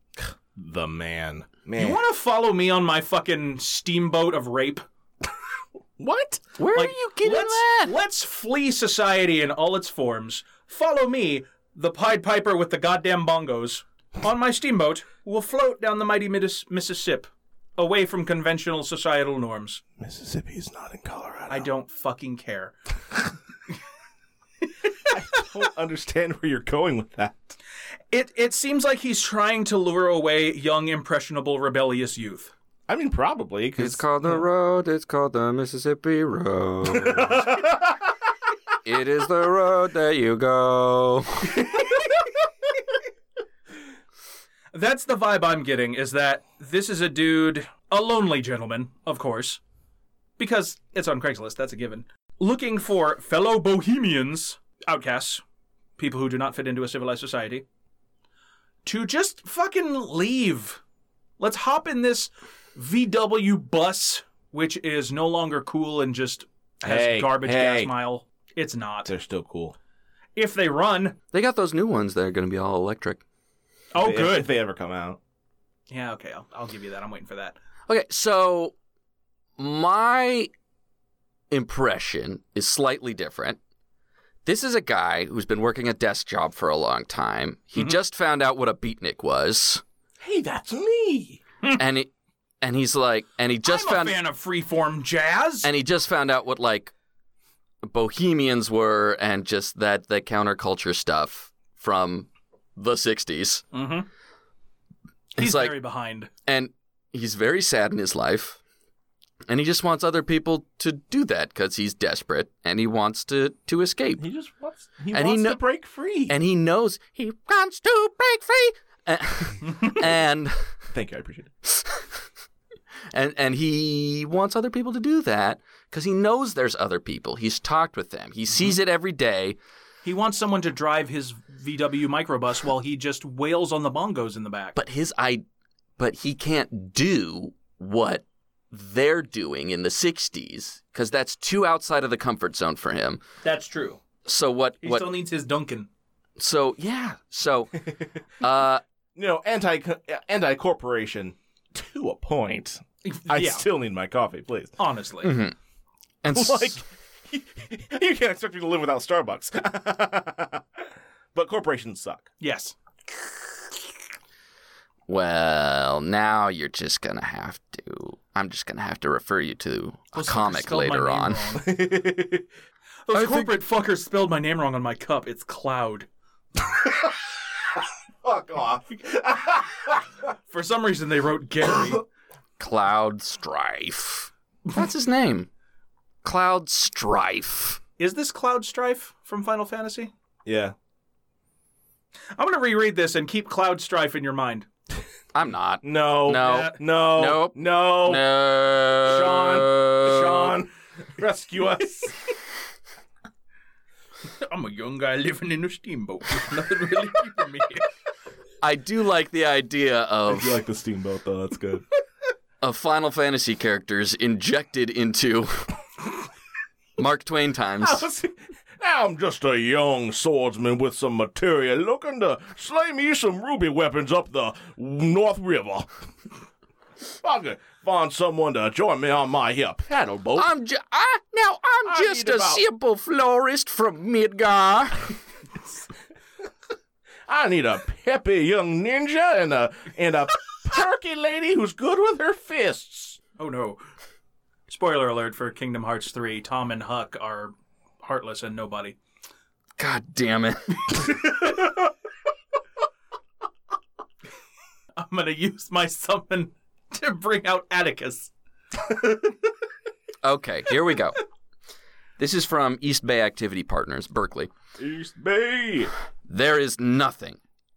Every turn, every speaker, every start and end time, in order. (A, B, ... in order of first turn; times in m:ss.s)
0:00.2-0:02.0 A
0:01.8-0:04.8 B
0:06.0-0:06.4 A
0:06.6-0:08.0 C
0:06.7-0:19.8 B
0:20.0-0:21.7 A
0:21.5-0:22.7 B
0:25.1-0:27.6 A
0:28.1-0:32.5 B
0:32.9-0:34.4 A
0:33.8-0:37.6 C
0:36.9-0:38.0 A
0:38.8-0:41.7 C
0:44.7-0:49.6 B
0:50.4-0:55.4 B
0:56.0-0:57.6 B
0:58.8-1:00.8 B
1:01.4-1:09.1 B
1:06.8-1:07.9 A
1:09.0-1:09.8 A
1:10.4-1:11.2 B
1:11.3-1:13.2 C
1:13.9-1:14.5 B
1:14.0-1:15.2 A
1:15.9-1:17.6 B
1:17.9-1:18.7 C
1:19.6-1:20.5 C
1:21.5-1:23.6 C
1:24.4-1:29.8 C
1:30.2-1:31.4 A
1:31.8-1:32.1 C
1:32.6-1:34.2 C
1:33.6-1:35.7 B
1:35.6-1:36.9 C
1:37.8-1:43.6 C
1:43.7-1:44.1 B
1:45.4-1:46.3 B
1:45.4-1:45.8 C
1:46.5-1:48.6 C
1:49.5-1:54.3 C
1:54.2-1:56.4 A
1:55.1-1:55.6 C
1:56.3-2:00.7 C
2:00.9-2:01.5 A
2:01.6-2:02.1 C
2:03.1-2:09.6 C
2:10.0-2:14.8 B
2:14.8-2:15.4 C
2:16.0-2:23.2 C
2:23.4-2:24.0 B
2:24.2-2:25.1 C
2:24.8-2:25.9 B
2:26.4-2:28.8 C
2:29.2-2:34.8 A
2:33.0-2:33.7 B
2:34.8-2:35.4 B
2:35.2-2:35.6 C
2:36.2-2:36.8 C
2:36.3-2:40.6 A
2:41.3-2:42.3 A
2:42.4-2:42.7 B
2:45.1-2:51.4 C
2:50.1-2:51.7 B
2:51.6-2:52.5 A
2:53.1-2:56.1 B
2:53.1-2:53.5 C
2:56.7-2:57.2 A
2:58.2-3:00.2 A
3:00.5-3:02.0 B
3:02.6-3:05.5 C
3:06.2-3:07.8 C
3:08.0-3:10.1 B
3:10.4-3:10.8 A
3:12.4-3:14.7 B
3:15.3-3:20.6 C
3:15.8-3:18.2 A
3:16.3-3:16.8 B
3:19.0-3:22.2 A
3:24.4-3:27.9 B
3:28.6-3:30.6 C
3:30.3-3:31.8 A
3:32.6-3:35.8 C
3:37.0-3:38.1 C
3:37.8-3:45.9 A
3:47.2-3:50.5 A
3:50.4-3:55.1 C
3:51.9-3:52.6 A
3:57.3-4:03.2 A
4:03.4-4:03.8 B
4:04.7-4:09.0 B
4:09.8-4:11.2 C
4:15.0-4:18.3 B
4:20.2-4:21.2 C
4:22.2-4:24.5 C
4:24.8-4:25.9 A
4:26.3-4:27.4 C